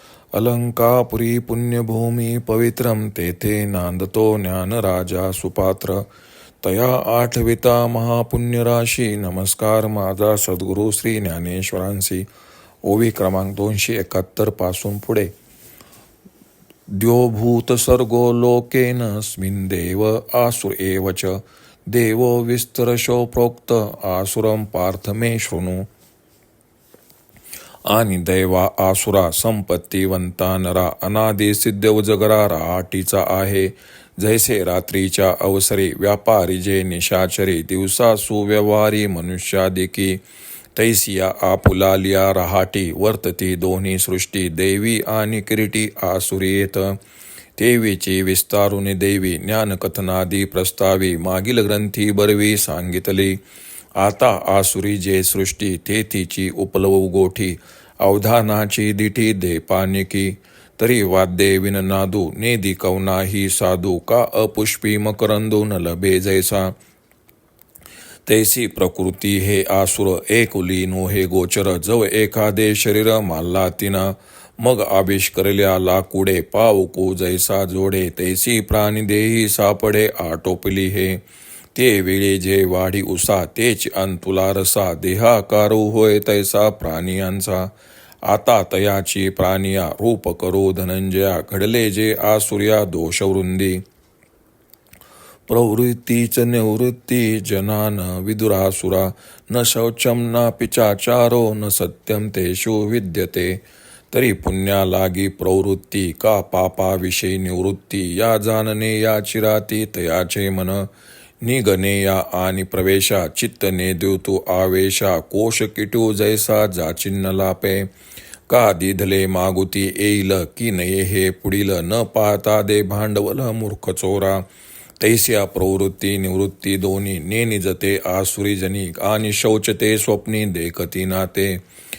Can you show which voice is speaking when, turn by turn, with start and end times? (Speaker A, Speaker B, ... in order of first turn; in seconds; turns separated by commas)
Speaker A: 0.3-6.0, Speaker A: 6.6-12.2, Speaker A: 12.8-15.3, Speaker A: 16.9-25.9, Speaker A: 27.9-40.2, Speaker A: 40.7-47.0, Speaker A: 47.6-53.4, Speaker A: 54.0-66.7, Speaker A: 68.2-81.2, Speaker A: 81.7-87.7, Speaker A: 88.3-93.8, Speaker A: 95.5-110.9, Speaker A: 111.4-117.9, Speaker A: 118.5-124.5, Speaker A: 125.0-131.6